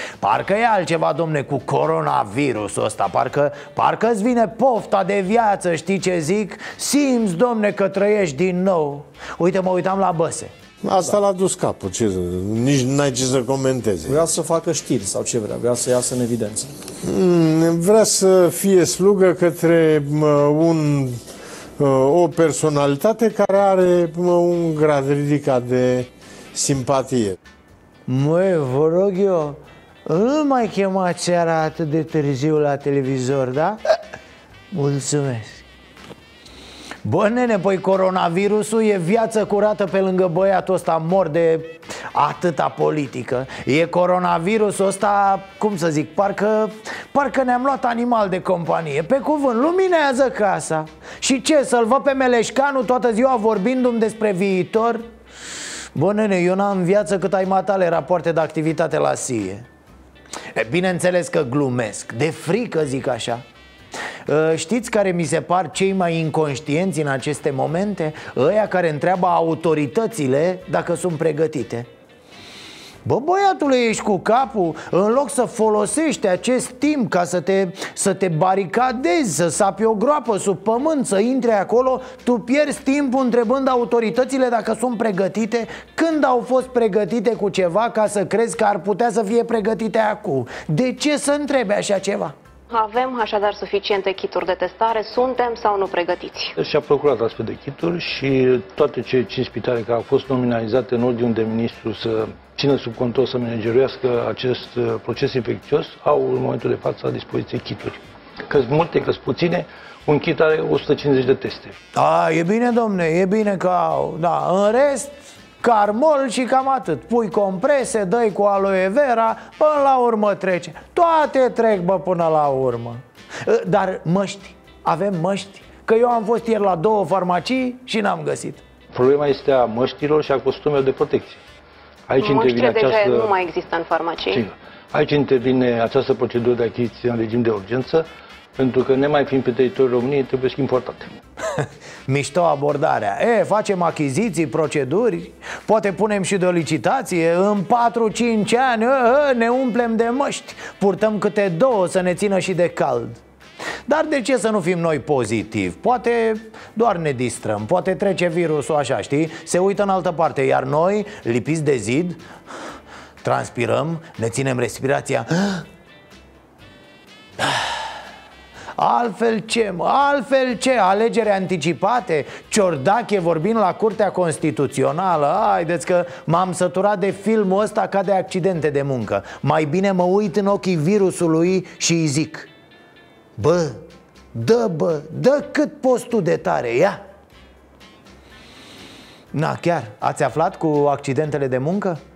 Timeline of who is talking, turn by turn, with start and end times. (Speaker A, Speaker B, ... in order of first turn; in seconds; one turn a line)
Speaker A: 0.2-10.5
Speaker B: 10.8-14.2
Speaker C: 14.1-16.7
Speaker B: 17.1-20.4
Speaker B: 21.8-24.4
Speaker B: 25.4-25.9
Speaker B: 26.6-27.2
Speaker A: 28.1-33.8
Speaker A: 34.7-35.6
Speaker A: 37.0-55.1
Speaker A: 55.9-59.7
Speaker A: 60.5-63.4
Speaker A: 64.2-71.9
Speaker A: 73.0-92.3
Speaker D: 92.7-96.5
Speaker E: 96.6-111.8
Speaker A: 111.9-128.6
Speaker E: 128.9-131.4
Speaker E: 132.1-133.3
Speaker D: 132.2-134.4
Speaker E: 134.3-138.1
Speaker E: 138.6-141.2
Speaker A: 141.6-153.2
Speaker A: 153.9-162.2
Speaker A: 163.2-165.7
Speaker A: 167.4-167.9
Speaker A: 168.8-182.5
Speaker A: 183.4-187.0
Speaker A: 189.3-192.0